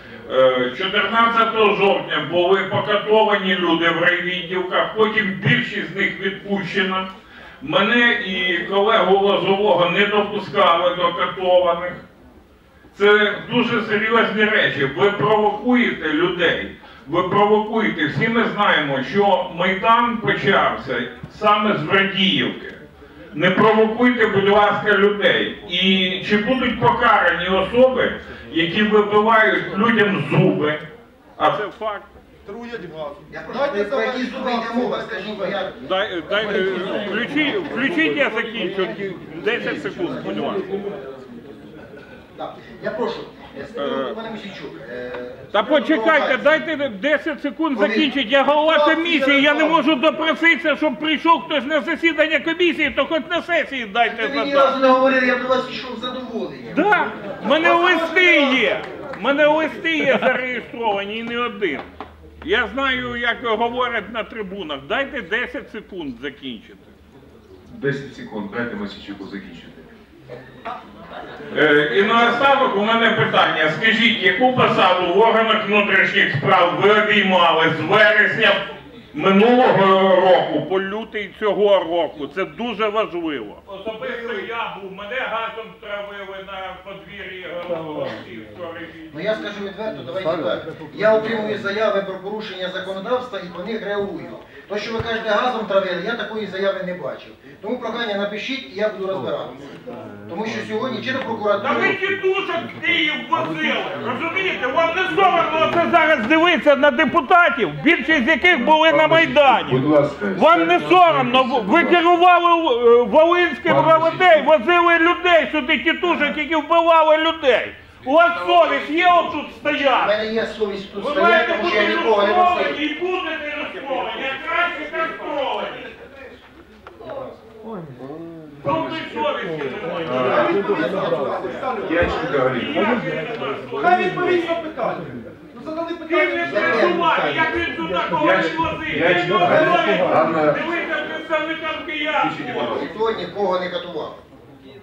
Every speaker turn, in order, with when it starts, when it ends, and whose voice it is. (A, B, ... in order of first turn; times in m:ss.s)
0:00.3-0:07.1 A
0:07.6-0:12.0 A
0:12.9-0:22.8 A
0:23.3-0:30.8 A
0:31.4-0:32.1 A
0:32.4-0:35.6 B
0:33.3-0:35.8 C
0:35.8-0:40.7 A
0:36.6-0:37.3 B
0:39.4-0:40.9 C
0:42.4-0:46.6 C
0:43.8-0:44.2 A
0:45.5-0:54.7 A
0:47.8-0:48.1 C
0:48.7-0:49.8 C
0:54.1-0:58.0 C
0:56.7-1:01.9 A
0:57.8-0:58.8 B
1:02.4-1:06.9 A
1:07.7-1:09.9 D
1:11.5-1:18.6 A
1:19.1-1:29.2 A
1:29.1-1:39.7 C
1:40.3-1:42.0 C
1:41.6-2:00.2 A
1:48.5-1:52.0 D
1:53.7-1:54.4 D
1:56.0-1:56.3 C
1:59.7-2:02.8 C
2:01.0-2:05.9 A
2:08.6-2:10.9 A
2:10.1-2:12.4 B
2:10.2-2:12.5 C
2:11.8-2:12.9 D
2:12.1-2:14.6 A
2:13.8-2:17.1 B
2:16.0-2:22.9 A
2:16.4-2:17.4 C
2:18.2-2:20.6 D
2:19.3-2:20.3 B
2:22.2-2:22.9 D
2:22.6-2:24.2 C